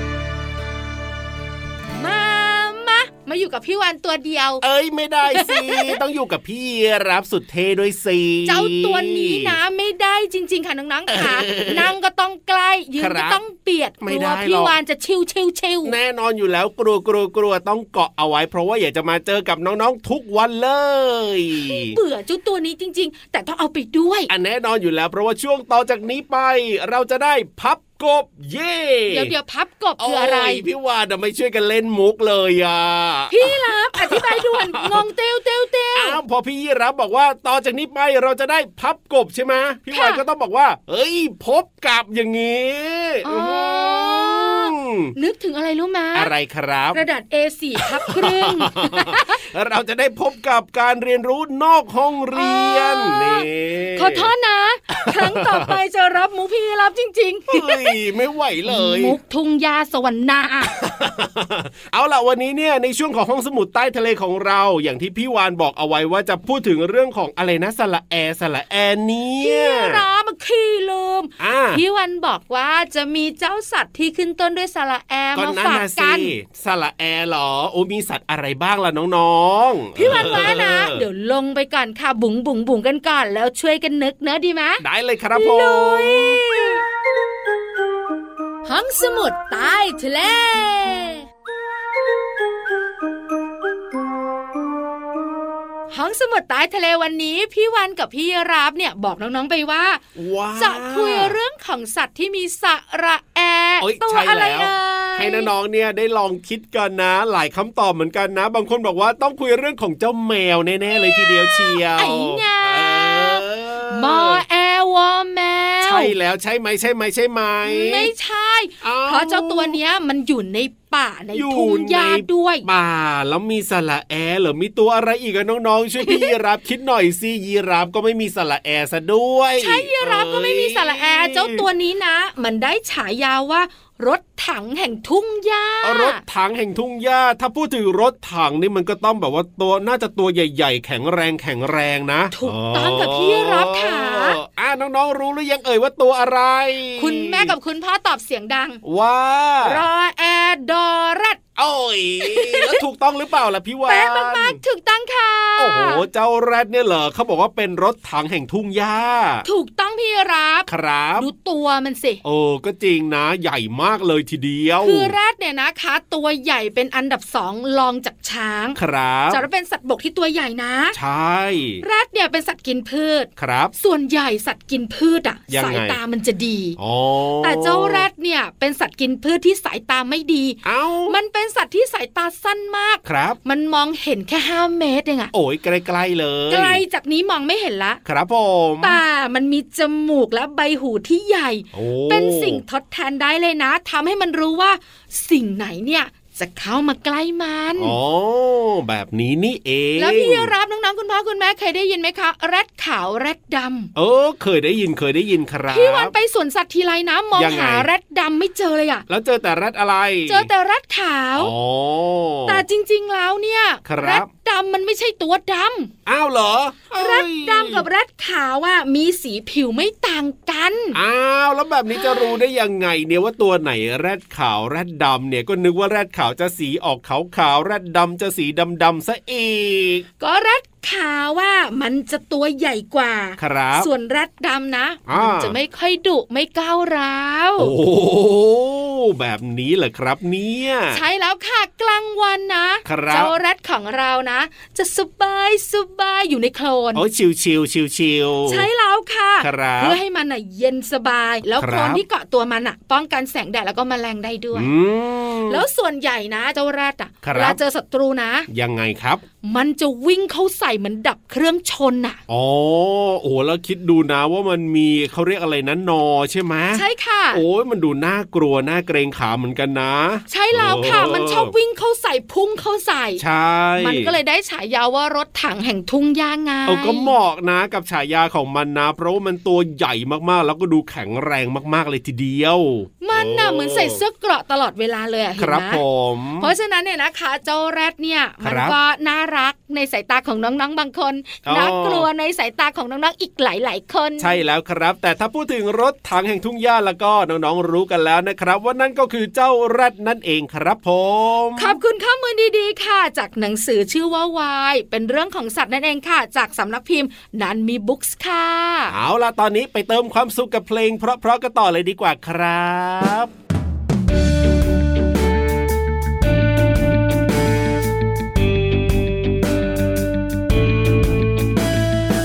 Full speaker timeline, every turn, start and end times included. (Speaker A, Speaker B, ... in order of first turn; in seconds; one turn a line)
Speaker A: 2.0-4.6
Speaker B: 4.6-9.5
Speaker A: 5.3-6.0
Speaker A: 8.4-15.9
Speaker B: 11.1-11.9
Speaker B: 13.0-13.4
Speaker B: 14.0-14.8
Speaker B: 15.8-21.9
Speaker A: 21.6-24.3
Speaker B: 24.3-29.3
Speaker A: 29.1-30.6
Speaker B: 30.0-35.0
Speaker A: 33.3-36.2
Speaker B: 35.9-45.1
Speaker A: 39.9-40.2
Speaker A: 43.2-46.3
Speaker B: 46.1-47.0
Speaker A: 46.9-49.4
Speaker B: 47.9-54.3
Speaker A: 52.4-57.9
Speaker B: 55.0-55.7
Speaker B: 57.5-59.2
Speaker A: 58.7-60.7
Speaker B: 60.7-70.0
Speaker A: 69.4-76.3
Speaker B: 71.4-71.8
Speaker B: 75.3-81.0
Speaker A: 80.0-84.8
Speaker B: 84.8-86.4
Speaker A: 85.3-86.8
Speaker A: 88.7-91.2
Speaker A: 95.9-100.0
Speaker B: 100.1-101.3
Speaker A: 100.6-105.5
Speaker B: 103.8-114.4
Speaker A: 111.2-116.1
Speaker B: 115.8-118.1
Speaker A: 117.6-122.7
Speaker B: 118.8-119.8
Speaker B: 121.3-131.7
Speaker A: 126.0-126.3
Speaker A: 129.6-136.2
Speaker B: 135.8-147.5
Speaker A: 142.3-144.4
Speaker A: 147.0-148.8
Speaker B: 148.8-149.8
Speaker A: 149.6-151.4
Speaker B: 151.6-154.6
Speaker A: 152.2-152.8
Speaker A: 153.8-156.0
Speaker B: 155.6-159.4
Speaker A: 159.4-162.2
Speaker B: 160.7-161.3
Speaker B: 162.2-165.1
Speaker A: 164.8-168.8
Speaker B: 168.7-169.4
Speaker A: 169.3-170.9
Speaker B: 170.9-171.8
Speaker A: 171.8-176.8
Speaker B: 173.4-173.7
Speaker B: 175.5-176.0
Speaker B: 176.8-178.1
Speaker A: 177.4-185.3
Speaker B: 180.6-181.2
Speaker B: 183.0-183.4
Speaker B: 185.3-186.8
Speaker A: 186.5-188.0
Speaker B: 188.0-189.0
Speaker A: 188.8-197.9
Speaker B: 191.7-192.6
Speaker B: 197.8-200.5
Speaker A: 200.0-203.9
Speaker B: 203.9-206.1
Speaker A: 205.7-209.0
Speaker B: 207.3-207.9
Speaker B: 209.1-210.5
Speaker A: 210.3-211.5
Speaker B: 211.4-212.6
Speaker A: 212.5-215.9
Speaker B: 213.8-214.3
Speaker B: 216.1-217.8
Speaker A: 216.9-220.9
Speaker B: 220.9-230.1
Speaker A: 221.9-222.3
Speaker A: 230.2-237.7
Speaker B: 233.4-233.9
Speaker B: 235.1-235.6
Speaker B: 237.6-241.0
Speaker A: 240.9-247.0
Speaker B: 242.8-243.3
Speaker B: 246.9-248.7
Speaker A: 248.5-254.7
Speaker B: 249.4-250.0
Speaker B: 251.6-252.0
Speaker B: 254.5-255.6
Speaker A: 255.5-258.4
Speaker B: 257.2-257.6
Speaker B: 258.5-259.2
Speaker A: 259.4-262.2
Speaker B: 262.3-271.5
Speaker A: 266.7-267.4
Speaker A: 270.3-273.2
Speaker B: 273.2-274.1
Speaker A: 273.8-277.1
Speaker B: 276.6-284.0
Speaker A: 283.0-285.8
Speaker B: 285.4-286.5
Speaker A: 286.4-294.4
Speaker B: 288.4-288.8
Speaker B: 291.4-292.1
Speaker B: 294.2-301.8
Speaker A: 301.6-308.9
Speaker B: 308.9-313.3